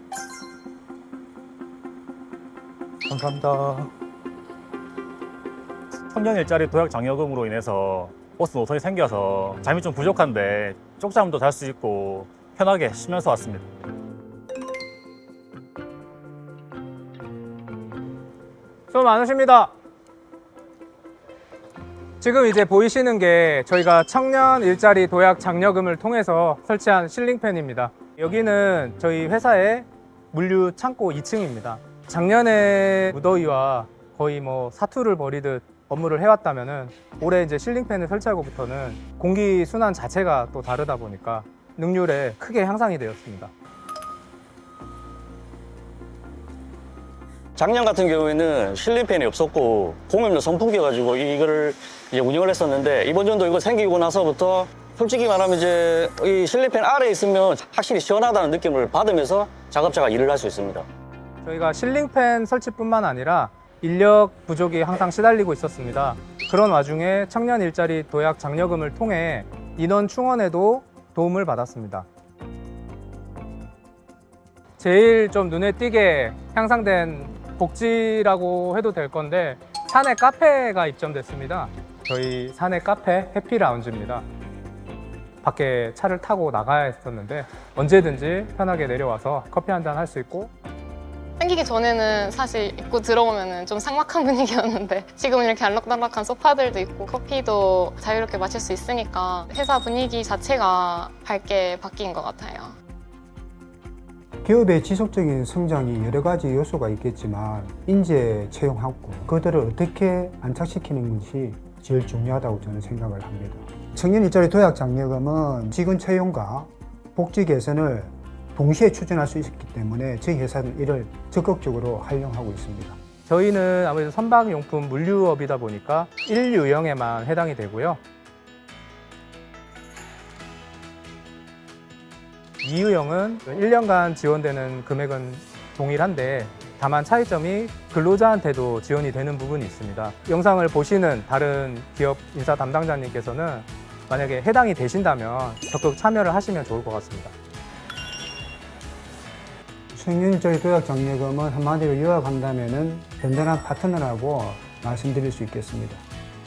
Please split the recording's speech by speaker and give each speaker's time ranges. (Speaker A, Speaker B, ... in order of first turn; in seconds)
Speaker A: 3.1-3.9, 6.0-13.7
Speaker B: 18.9-19.7, 22.2-43.5, 61.4-72.0, 74.8-84.2, 85.4-90.5, 123.2-128.0, 132.6-147.3
Speaker C: 47.6-60.8
Speaker D: 91.4-102.7
Speaker E: 104.4-123.0, 149.9-156.0